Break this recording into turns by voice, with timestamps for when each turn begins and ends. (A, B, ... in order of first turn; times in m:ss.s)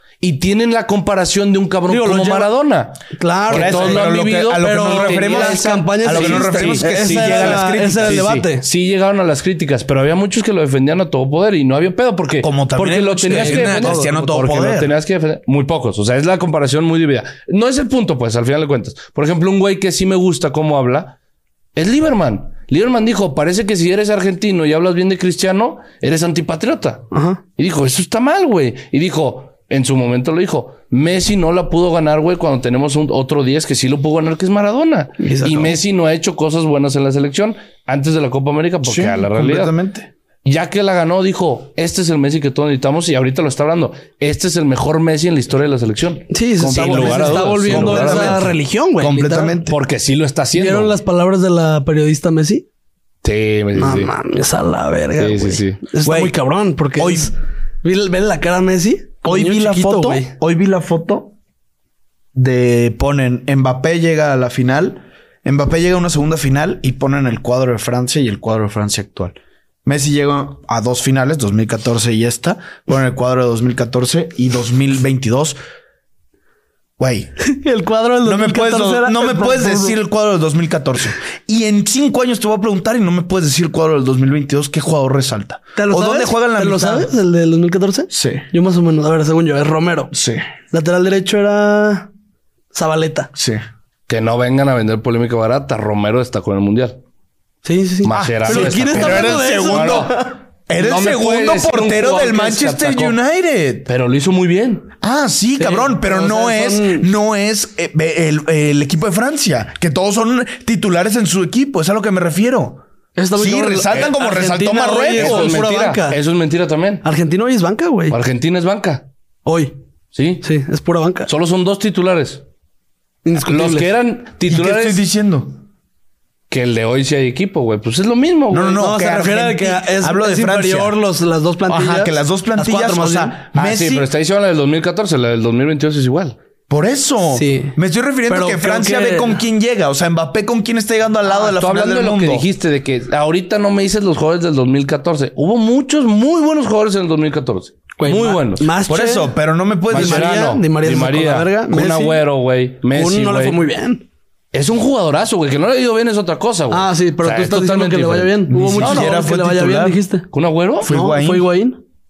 0:00.2-0:21.2 A
0:01.9-0:02.5 B
0:03.2-0:08.7 B
0:03.5-0:08.3 C
0:12.4-0:14.9 C
0:13.2-0:14.2 B
0:21.8-0:27.0 A
0:27.1-0:27.4 B
0:27.6-0:39.7 A
0:35.2-0:35.8 B
0:38.8-0:40.1 C
0:40.4-0:48.6 A
0:46.3-0:49.6 B
0:46.6-0:49.7 C
0:49.7-0:51.0 A
0:50.6-0:52.6 B
0:53.2-0:54.1 A
0:53.8-0:57.3 B
0:55.2-0:55.8 A
0:56.0-0:56.3 C
0:57.0-0:57.3 C
0:57.8-1:00.3 B
0:59.2-1:01.3 C
1:02.4-1:15.6 C
1:17.0-1:17.3 C
1:17.4-1:20.0 B
1:18.2-1:27.1 C
1:25.8-1:30.1 B
1:28.1-1:28.4 C
1:30.1-1:30.4 C
1:30.7-1:32.1 B
1:32.7-1:33.3 B
1:33.4-1:33.6 C
1:34.1-1:37.0 A
1:37.6-1:40.4 B
1:38.0-1:43.2 A
1:38.1-1:43.9 C
1:43.9-1:44.9 A
1:45.0-1:52.8 C
1:45.6-1:47.1 B
1:53.2-1:56.2 B
1:53.4-1:55.6 C
1:55.2-1:57.0 A
1:57.0-1:58.2 B
1:58.1-1:59.1 A
1:59.4-1:59.7 B
2:00.1-2:00.4 A
2:00.4-2:01.3 B
2:01.3-2:02.4 A
2:03.2-2:03.9 B
2:03.4-2:05.0 A
2:04.5-2:05.6 C
2:06.5-2:08.8 A
2:08.5-2:11.0 C
2:08.8-2:13.4 B
2:11.7-2:14.1 C
2:13.6-2:16.4 A
2:16.7-2:22.4 C
2:17.4-2:17.8 B
2:18.3-2:19.4 B
2:21.3-2:28.7 A
2:28.0-2:29.3 B
2:28.9-2:30.5 C
2:29.9-2:32.2 B
2:29.9-2:33.6 A
2:32.9-2:34.0 B
2:34.5-2:39.2 A
2:36.7-2:40.3 B
2:38.5-2:40.0 C
2:40.3-2:40.9 A
2:40.8-2:41.5 C
2:40.9-2:41.8 B